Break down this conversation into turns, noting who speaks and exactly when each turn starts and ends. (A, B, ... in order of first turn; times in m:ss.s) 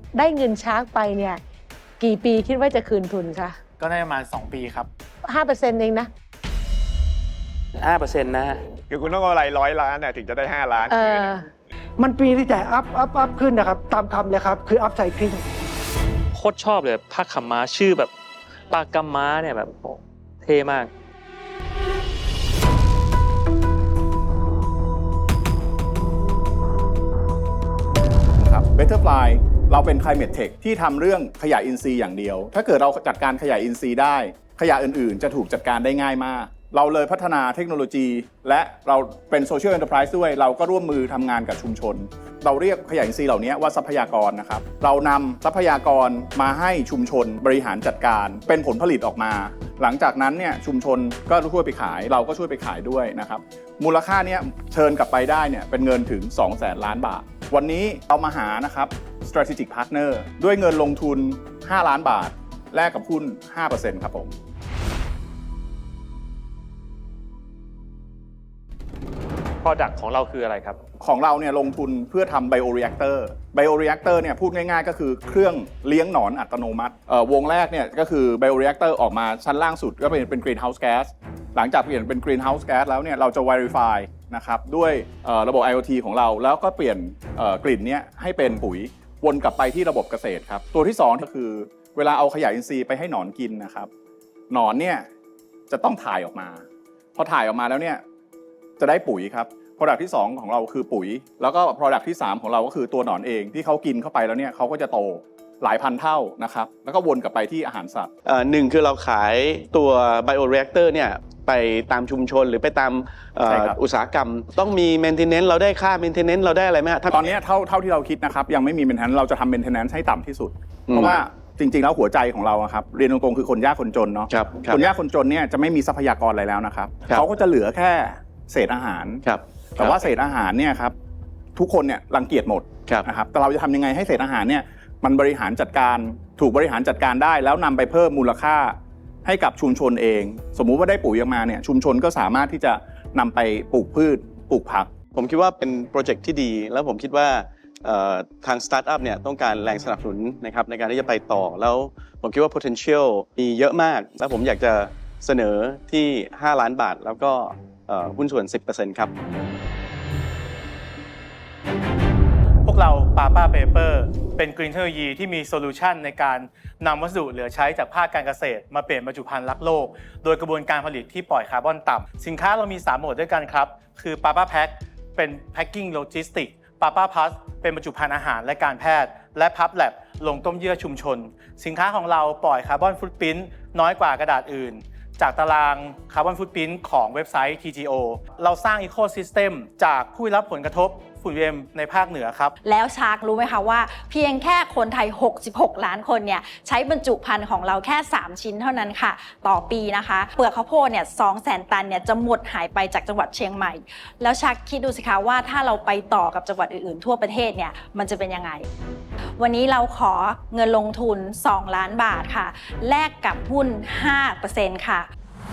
0:00.1-0:01.4 A
0:02.0-0:03.6 A
0:03.8-0:04.9 B
0:05.2-0:06.1 A
0:07.8-0:08.6 C
0:08.9-0:11.3 D
0:10.9-0:11.4 A
0:12.0-0:15.4 E
0:16.3-0:18.1 C
0:18.7-0:20.9 C
0:28.4-1:04.3 F
1:09.6-1:10.8 C
1:11.0-1:33.9 F
1:34.5-1:35.1 F
1:35.7-1:36.6 F
1:37.2-1:38.0 F
1:38.8-1:48.1 F
1:48.2-1:57.3 G
1:53.4-1:53.8 F
1:57.1-2:09.2 F
2:00.9-2:01.2 G
2:04.3-2:04.9 G
2:09.2-2:10.0 G
2:09.8-2:10.9 F
2:11.6-2:24.9 F
2:25.1-2:39.1 G
2:42.6-3:12.5 B
3:12.6-3:28.7 H
3:29.4-3:35.1 H